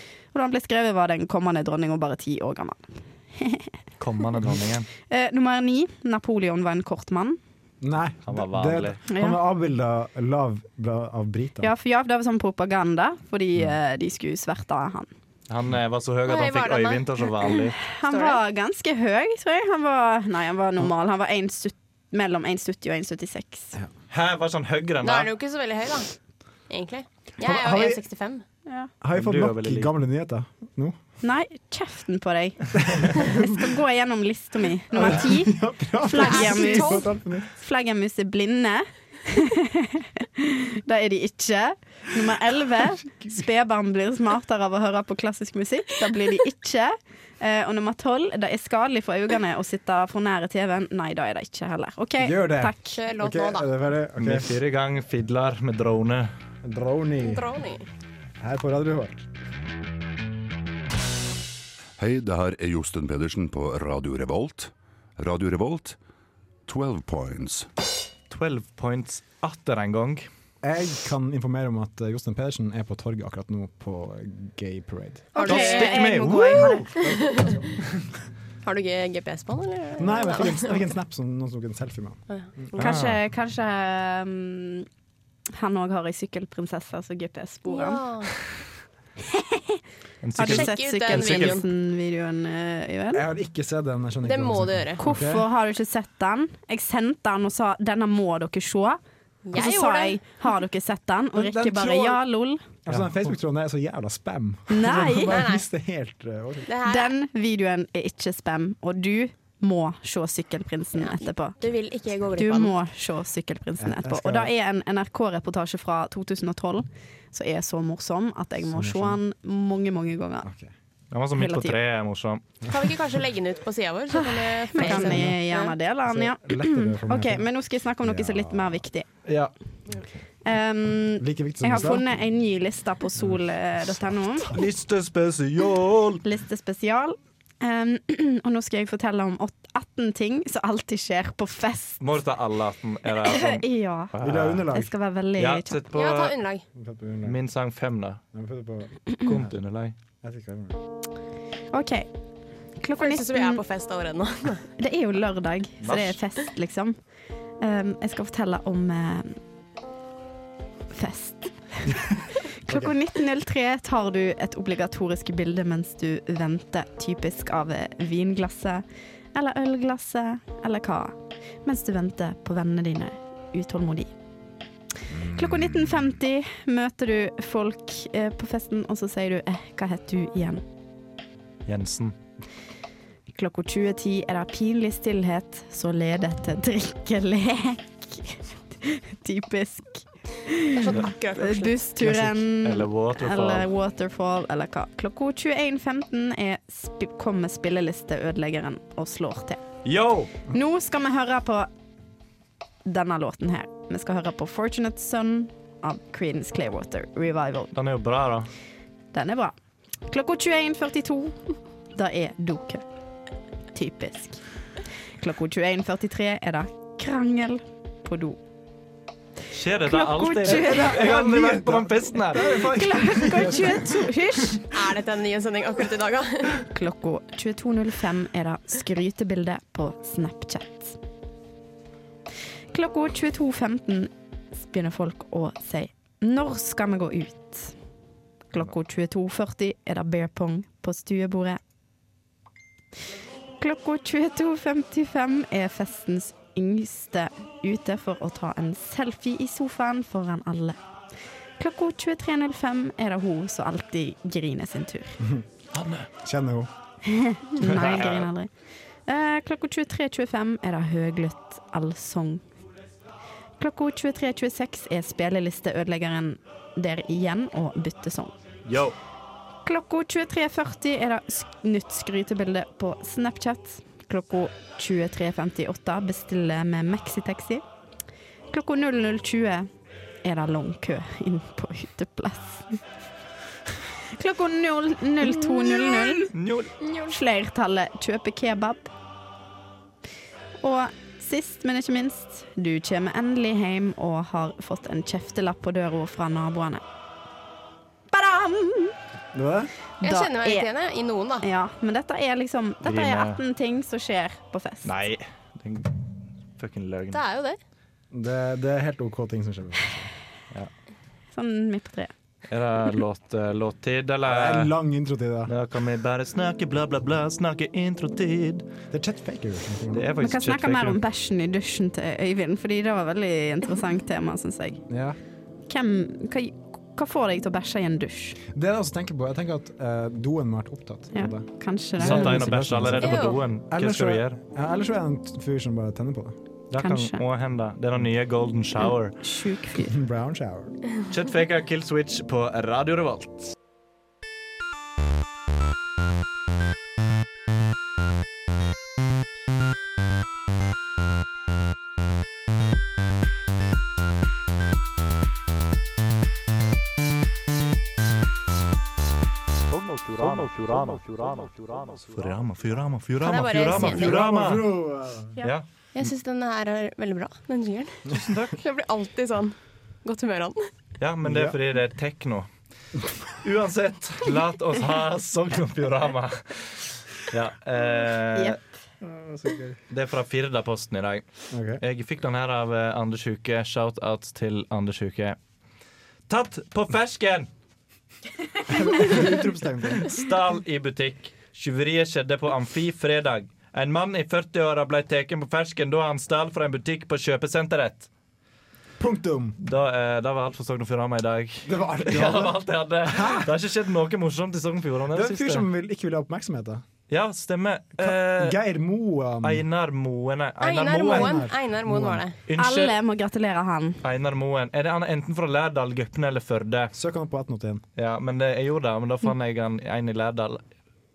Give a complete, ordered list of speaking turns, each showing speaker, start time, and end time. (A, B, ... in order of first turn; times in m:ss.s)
0:00.3-0:03.7 A
0:04.0-0:04.9 B
0:05.1-0:07.4 A
0:07.8-0:11.7 C
0:08.3-0:09.0 B
0:09.1-0:09.4 A
0:11.6-0:15.1 A
0:15.5-0:17.8 B
0:16.3-0:18.4 D
0:18.0-0:23.8 A
0:24.1-0:25.3 B
0:25.0-0:26.1 D
0:26.7-0:28.4 D
0:27.4-0:28.0 C
0:29.0-0:31.0 C
0:29.1-0:29.9 B
0:31.2-0:53.0 A
0:32.8-0:33.2 C
0:34.9-0:37.5 C
0:36.2-0:37.1 D
0:52.2-0:54.5 C
0:52.9-0:53.7 D
0:54.2-0:56.3 B
0:56.6-0:57.5 C
0:57.2-0:57.9 D
0:58.4-0:59.2 C
1:02.0-1:06.0 E
1:06.7-1:07.7 E
1:08.3-1:10.3 B
1:10.6-1:15.3 C
1:15.3-1:16.8 A
1:15.4-1:17.6 D
1:15.5-1:16.8 B
1:16.5-1:18.1 C
1:18.6-1:20.8 D
1:20.0-1:22.7 C
1:22.3-1:22.9 D
1:22.8-1:24.9 A
1:22.8-1:23.2 B
1:25.6-1:28.0 A
1:27.7-1:28.3 D
1:29.3-1:29.8 A
1:30.2-1:31.6 B
1:30.4-1:33.2 A
1:30.4-1:31.7 D
1:33.1-1:35.4 C
1:34.2-1:35.0 D
1:35.0-1:39.0 A
1:39.4-1:40.2 D
1:39.5-1:42.6 A
1:41.4-1:42.2 C
1:42.9-1:46.7 C
1:44.7-1:45.4 A
1:45.1-1:45.6 D
1:46.7-1:47.2 D
1:46.9-1:51.6 A
1:51.0-1:52.8 D
1:52.4-2:00.5 A
1:53.8-1:54.5 C
1:58.6-1:59.2 C
2:00.4-2:00.7 C
2:01.1-2:02.4 B
2:01.4-2:01.8 A
2:02.7-2:05.8 D
2:04.1-2:09.1 A
2:04.8-2:05.4 C
2:06.1-2:08.8 C
2:09.3-2:09.5 B
2:09.9-2:10.2 C
2:10.4-2:14.5 A
2:11.2-2:12.1 C
2:14.5-2:16.2 B
2:16.2-2:22.0 A
2:22.0-2:24.6 B
2:23.2-2:24.1 A
2:24.2-2:24.9 C
2:24.7-2:25.8 A
2:25.4-2:26.4 B
2:25.9-2:26.6 D
2:26.8-2:27.4 C
2:27.2-2:28.2 B
2:28.3-2:29.5 C
2:29.2-2:29.9 B
2:30.2-2:30.8 C
2:31.7-2:32.1 A
2:32.8-2:33.6 A
2:33.0-2:34.7 D
2:34.8-2:37.0 A
2:35.8-2:36.2 B
2:37.6-2:39.4 A
2:40.9-2:42.0 A
2:42.6-2:54.1 A
2:42.7-2:42.9 C
2:55.2-3:00.6 A
3:01.7-3:02.2 B
3:03.3-3:19.6 A
3:10.8-3:11.8 D
3:12.0-3:13.7 B
3:19.8-3:20.3 B
3:20.5-3:21.7 A
3:22.8-3:27.7 A
3:27.7-3:28.5 B
3:29.1-3:29.5 A
3:30.1-3:31.4 A
3:31.9-3:32.8 A
3:33.8-3:34.4 A
3:35.2-3:38.4 A
3:39.5-3:42.7 B
3:39.8-3:41.0 A
3:40.4-3:44.1 C
3:42.7-3:44.7 A
3:44.7-3:46.7 D
3:46.7-3:51.0 A
3:52.7-3:57.8 A
3:58.5-4:01.6 A
4:03.6-4:10.8 A
4:11.6-4:15.2 A
4:15.7-4:16.1 B
4:16.2-4:16.7 C
4:17.1-4:18.5 A
4:17.6-4:18.3 B
4:19.1-4:22.4 A
4:23.6-4:28.3 A
4:28.7-4:29.0 B
4:29.6-4:37.6 A
4:38.5-4:39.7 A
4:40.2-4:42.8 A
4:44.1-4:46.3 A
4:45.7-4:46.3 D
4:46.3-4:46.7 B
4:46.8-4:47.1 D
4:47.1-4:48.9 A
4:50.6-4:56.8 A
4:58.1-4:58.9 A
4:59.3-4:59.7 C
5:00.0-5:00.7 A
5:00.0-5:01.5 D
5:01.4-5:04.9 A
5:02.8-5:03.4 B
5:04.8-5:05.9 B
5:06.6-5:07.2 B
5:07.1-5:07.6 D
5:08.1-5:10.1 C
5:11.3-5:12.1 A
5:12.5-5:14.7 B
5:14.2-5:15.5 C
5:15.5-5:18.7 B
5:18.9-5:20.1 C
5:19.9-5:21.0 B
5:20.2-5:24.8 A
5:24.9-5:25.2 C
5:25.7-5:28.4 A
5:28.5-5:36.4 C
5:31.1-5:32.4 A
5:32.0-5:34.4 B
5:33.0-5:33.4 D
5:36.7-5:39.2 B
5:36.8-5:37.2 A
5:38.8-5:40.0 A
5:39.8-5:40.8 C
5:41.1-5:43.6 B
5:59.7-6:04.7 B
6:03.2-6:04.2 D
6:03.6-6:05.4 C
6:06.0-6:10.7 D
6:08.1-6:08.6 B
6:11.0-6:12.5 B
6:11.2-6:11.6 C
6:13.4-6:18.6 B
6:19.0-6:19.8 C
6:19.9-6:25.4 B
6:21.5-6:21.8 C
6:26.3-6:27.5 B
6:28.7-6:30.1 C
6:30.1-6:38.1 B
6:39.0-6:39.6 C
6:39.6-6:45.7 B
6:41.6-6:43.5 C
6:45.1-6:46.8 C
6:47.1-6:48.6 B
6:48.0-6:49.6 C
6:49.4-6:51.4 B
6:50.6-6:52.4 D
6:51.1-6:52.2 C
6:52.5-6:52.9 B
6:52.6-6:54.0 A
6:54.0-6:56.9 B
6:56.9-6:57.8 C
6:58.0-7:00.6 B